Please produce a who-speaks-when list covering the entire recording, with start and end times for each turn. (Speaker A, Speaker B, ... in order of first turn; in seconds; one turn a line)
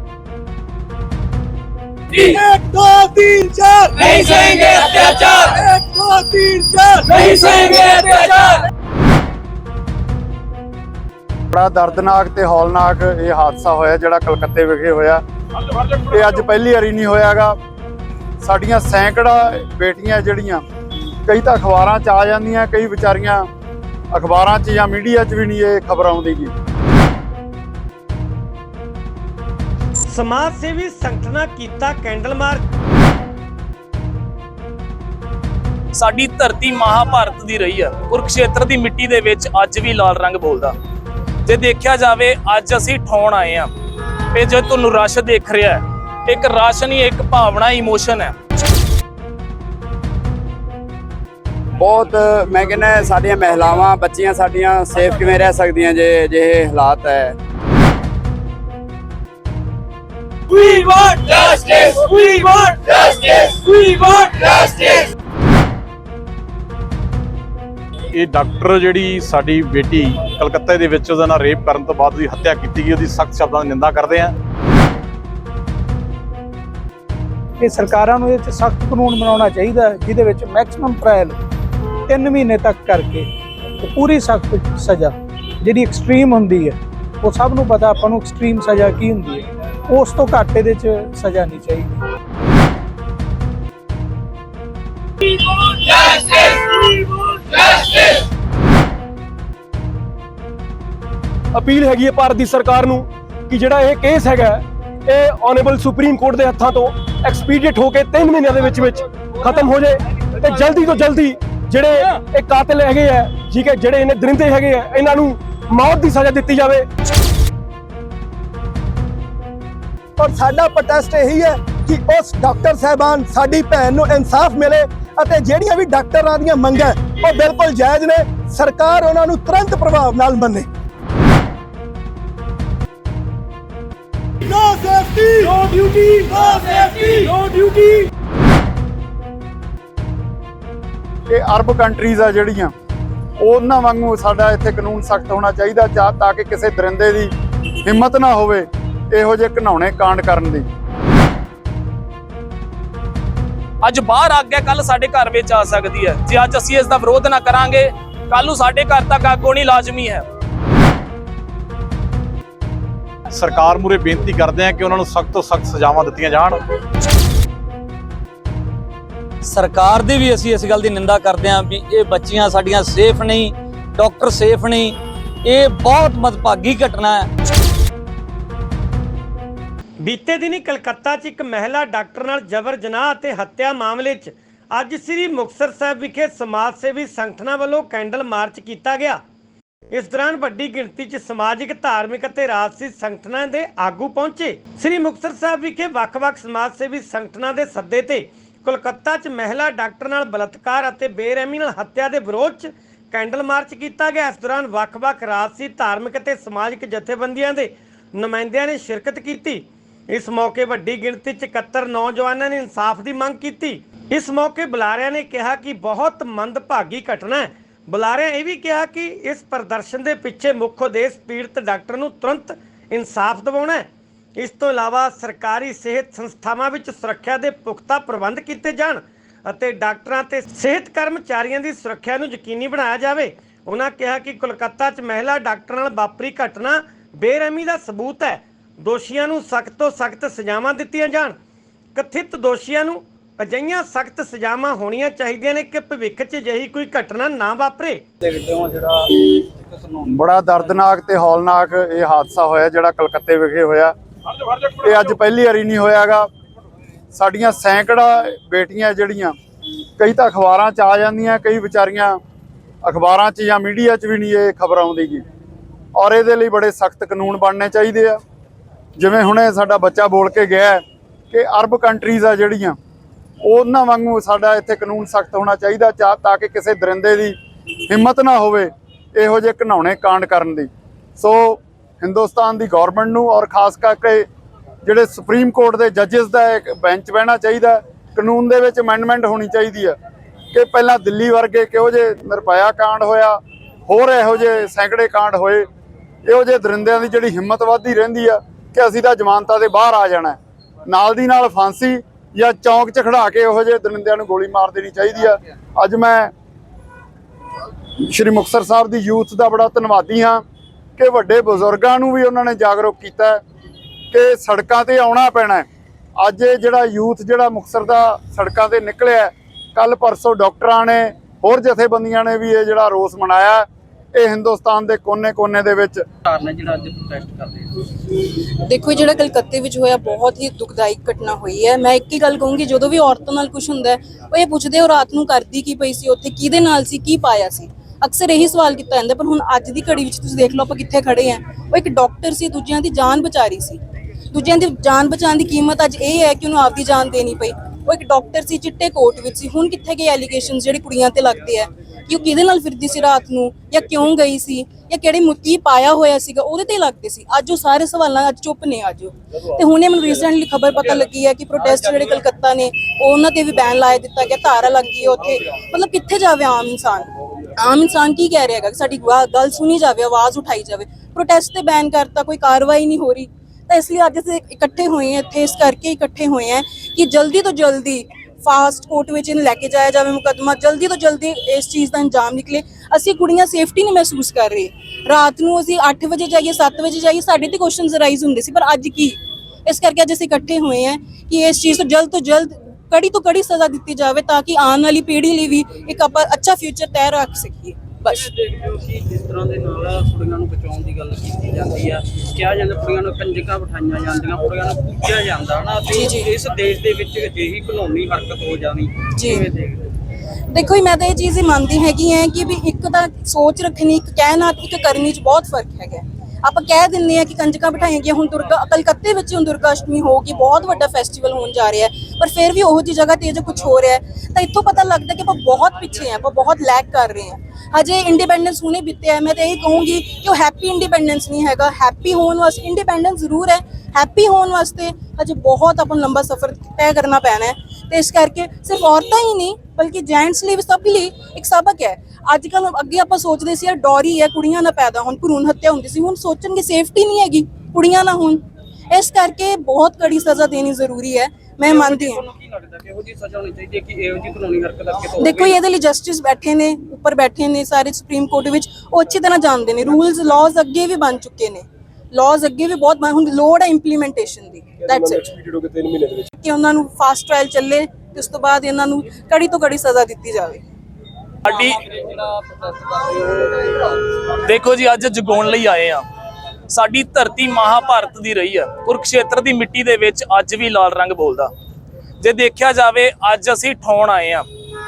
Speaker A: 2.2-8.2
Speaker B: 4.1-5.3
Speaker B: 7.1-8.4
Speaker C: 11.5-15.2
Speaker C: 16.1-17.5
Speaker C: 18.4-20.6
Speaker C: 21.3-23.4
Speaker C: 24.1-26.5
Speaker D: 30.1-32.6
Speaker B: 35.9-40.7
Speaker B: 41.5-43.7
Speaker B: 44.3-48.3
Speaker E: 51.8-57.3
Speaker B: 60.5-64.9
Speaker F: 68.1-74.3
Speaker G: 77.6-81.4
Speaker G: 82.1-83.3
Speaker G: 83.8-92.0
Speaker H: 101.5-116.9
Speaker A: 120.2-130.7
Speaker A: 134.4-137.6
Speaker C: 141.3-142.7
Speaker C: 143.4-147.3
Speaker C: 147.8-150.6
Speaker B: 153.8-160.2
Speaker F: 163.3-166.6
Speaker I: 169.4-177.2
Speaker D: 180.0-189.2
Speaker D: 189.9-223.8
Speaker D: 224.4-241.3
Speaker D: 241.9-248.0
Speaker J: 248.2-250.0
Speaker C: 250.1-253.9
Speaker C: 254.8-256.3
Speaker C: 257.1-259.3
Speaker C: 260.0-262.2
Speaker C: 262.8-265.2
Speaker C: 265.9-268.2
Speaker C: 268.9-270.8
Speaker C: 271.3-272.8
Speaker C: 273.4-277.4
Speaker C: 277.9-284.2
Speaker C: 284.8-289.9
Speaker C: 290.5-295.6
Speaker C: 296.2-306.3
Speaker C: 308.1-310.4
Speaker C: 311.0-313.4
Speaker C: 314.1-315.6
Speaker C: 316.2-326.0
Speaker J: 326.2-327.9
Speaker K: 328.1-343.8
Speaker K: 344.3-398.2
Speaker J: 398.1-409.9
Speaker K: 405.9-406.3
Speaker K: 409.1-409.4
Speaker K: 410.5-452.2
Speaker J: 451.6-455.6
Speaker K: 455.2-465.3
Speaker G: 465.6-466.2
Speaker K: 466.4-470.6
Speaker B: 471.4-471.8
Speaker J: 472.3-473.0
Speaker B: 474.4-476.0
Speaker B: 476.7-481.5
Speaker B: 482.2-484.4